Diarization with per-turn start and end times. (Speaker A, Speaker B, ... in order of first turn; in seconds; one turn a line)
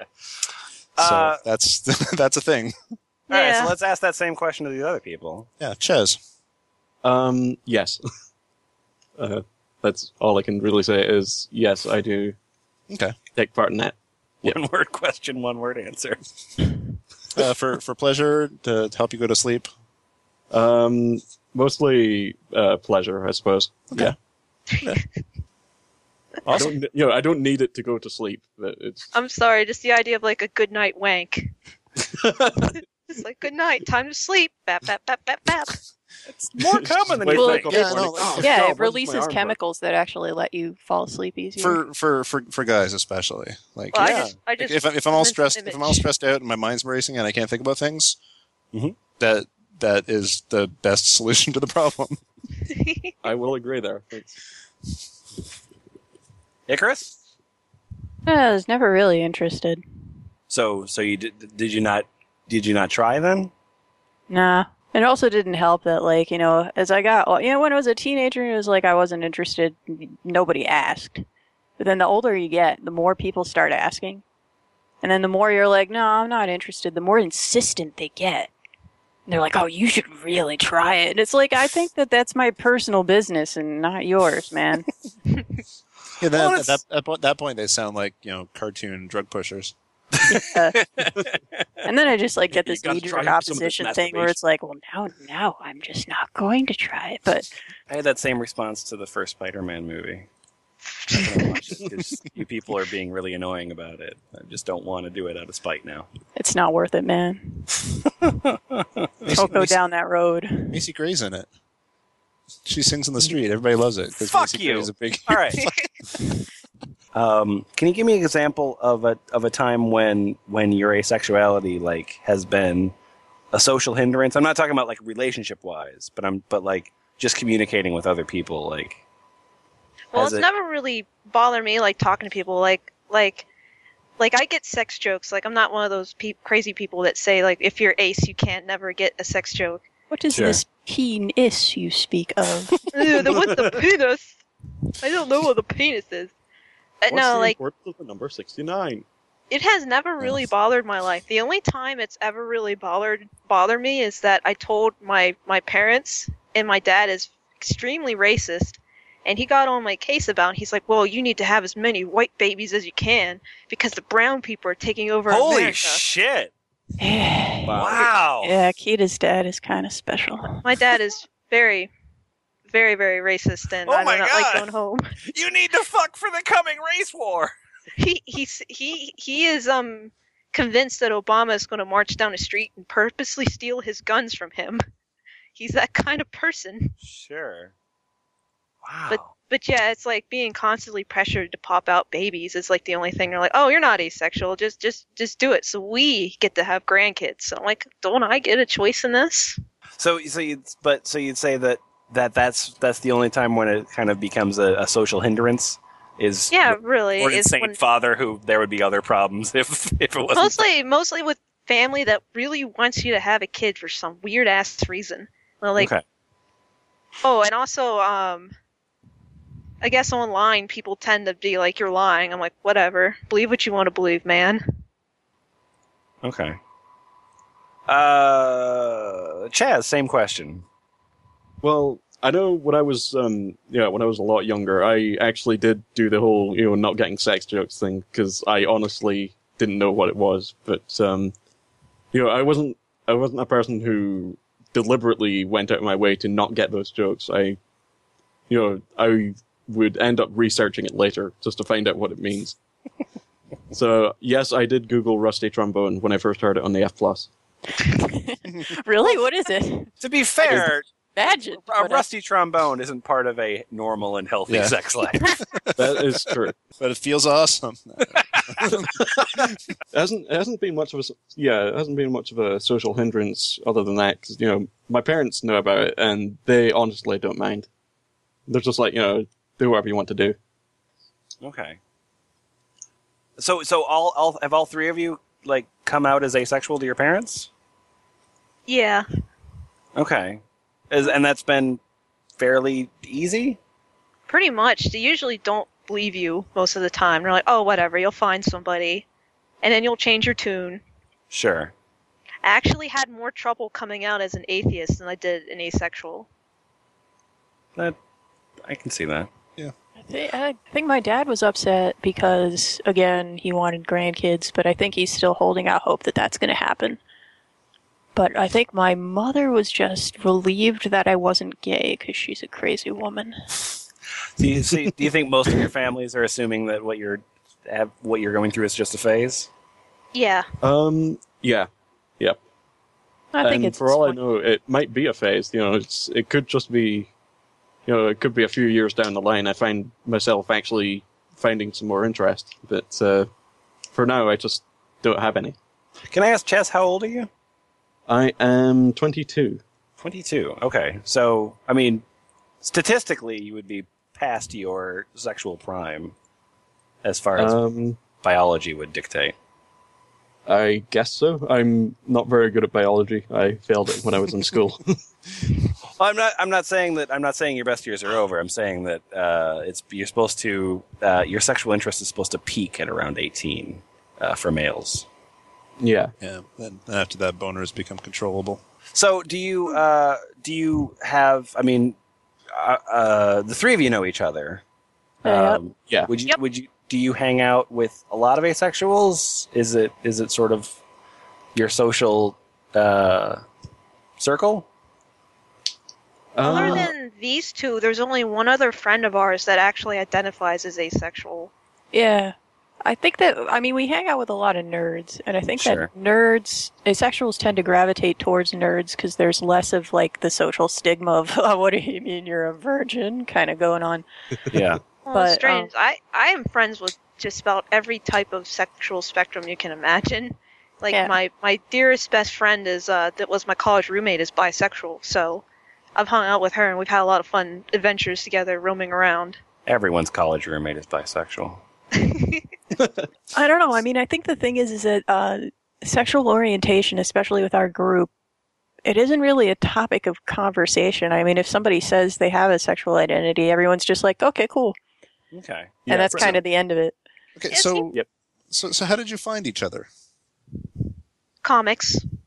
Speaker A: 0.9-1.4
Speaker B: 1.0-2.7
Speaker C: 3.3-3.7
Speaker A: 3.3-5.5
Speaker B: 5.6-6.2
Speaker D: 7.0-8.0
Speaker D: 9.2-12.3
Speaker B: 12.9-13.2
Speaker D: 13.3-14.6
Speaker A: 14.4-16.2
Speaker B: 17.3-19.7
Speaker D: 20.5-24.1
Speaker C: 24.7-25.0
Speaker A: 26.4-26.7
Speaker D: 26.5-29.1
Speaker C: 29.1-31.5
Speaker D: 32.1-32.8
Speaker C: 32.6-35.8
Speaker A: 36.3-38.4
Speaker D: 36.8-39.5
Speaker E: 37.4-41.8
Speaker B: 37.7-38.5
Speaker B: 41.6-48.2
Speaker C: 43.9-46.0
Speaker A: 44.0-44.3
Speaker B: 49.2-52.2
Speaker C: 52.7-53.1
Speaker D: 53.2-54.4
Speaker A: 56.7-57.2
Speaker E: 58.2-59.8
Speaker A: 60.5-63.5
Speaker E: 64.3-71.2
Speaker E: 71.8-74.2
Speaker E: 75.0-78.5
Speaker E: 79.3-84.9
Speaker B: 86.2-89.7
Speaker A: 86.3-86.8
Speaker E: 90.3-90.8
Speaker A: 90.3-91.3
Speaker E: 91.8-97.5
Speaker D: 92.5-94.2
Speaker A: 93.2-94.3
Speaker A: 97.9-100.3
Speaker A: 101.1-106.1
Speaker E: 106.3-107.8
Speaker A: 108.3-109.3
Speaker B: 109.2-109.8
Speaker E: 109.3-110.8
Speaker B: 110.7-111.5
Speaker B: 112.6-115.7
Speaker A: 114.2-115.7
Speaker A: 117.1-122.9
Speaker A: 123.5-129.0
Speaker C: 130.1-133.4
Speaker A: 130.1-130.4
Speaker C: 134.2-139.8
Speaker E: 140.1-142.8
Speaker A: 140.3-140.6
Speaker C: 142.9-144.4
Speaker D: 143.3-143.8
Speaker C: 145.0-146.3
Speaker C: 147.0-147.6
Speaker D: 147.1-149.0
Speaker C: 149.5-166.0
Speaker A: 165.3-166.5
Speaker E: 167.0-170.8
Speaker A: 167.7-168.5
Speaker C: 170.6-171.9
Speaker C: 172.7-175.1
Speaker A: 173.8-174.7
Speaker A: 175.2-177.5
Speaker C: 178.0-184.8
Speaker C: 185.6-186.9
Speaker A: 187.0-187.7
Speaker A: 188.8-189.3
Speaker C: 189.1-199.6
Speaker A: 200.0-210.6
Speaker C: 206.5-207.8
Speaker C: 210.3-215.9
Speaker A: 215.8-216.0
Speaker C: 217.2-218.5
Speaker C: 219.8-224.6
Speaker A: 226.2-226.6
Speaker A: 227.9-230.6
Speaker D: 231.6-241.3
Speaker D: 242.1-247.6
Speaker D: 248.5-252.6
Speaker D: 253.7-257.3
Speaker E: 257.8-259.9
Speaker A: 260.0-260.9
Speaker E: 260.4-262.0
Speaker A: 261.6-265.3
Speaker B: 264.5-268.9
Speaker D: 265.8-266.6
Speaker D: 268.7-277.7
Speaker D: 278.5-280.4
Speaker A: 281.4-281.8
Speaker A: 283.4-287.5
Speaker C: 288.7-289.1
Speaker A: 289.9-291.8
Speaker A: 292.4-293.6
Speaker C: 294.3-299.0
Speaker C: 299.6-300.8
Speaker A: 301.3-301.7
Speaker C: 302.4-306.3
Speaker A: 308.6-309.3
Speaker E: 310.0-317.0
Speaker E: 318.1-323.4
Speaker A: 324.4-329.5
Speaker C: 330.1-330.5
Speaker D: 330.6-331.7
Speaker E: 333.3-334.2
Speaker D: 333.4-337.1
Speaker D: 337.9-343.3
Speaker D: 343.9-345.6
Speaker A: 346.1-347.3
Speaker D: 348.1-349.6
Speaker A: 350.0-352.0
Speaker A: 352.6-356.1
Speaker A: 357.0-357.6
Speaker D: 357.4-358.0
Speaker A: 358.2-359.3
Speaker D: 360.4-364.9
Speaker A: 366.0-375.1
Speaker D: 375.8-376.1
Speaker B: 376.2-378.6
Speaker A: 378.9-381.9
Speaker A: 382.5-384.6
Speaker A: 385.2-390.8
Speaker E: 385.2-385.6
Speaker D: 385.8-386.1
Speaker A: 391.5-393.4
Speaker A: 394.2-394.7
Speaker D: 396.3-396.9
Speaker E: 396.4-396.9
Speaker C: 396.4-401.5
Speaker E: 401.9-414.0
Speaker A: 405.6-405.9
Speaker A: 414.5-414.8
Speaker C: 415.0-425.4
Speaker E: 415.1-415.7
Speaker C: 425.9-429.4
Speaker A: 429.6-431.6
Speaker C: 431.9-432.4
Speaker E: 433.3-438.1
Speaker E: 438.8-444.8
Speaker A: 445.3-446.3
Speaker D: 445.9-446.4
Speaker E: 445.9-446.9
Speaker B: 447.4-447.9
Speaker C: 447.5-447.9
Speaker B: 448.5-449.9
Speaker C: 451.4-452.0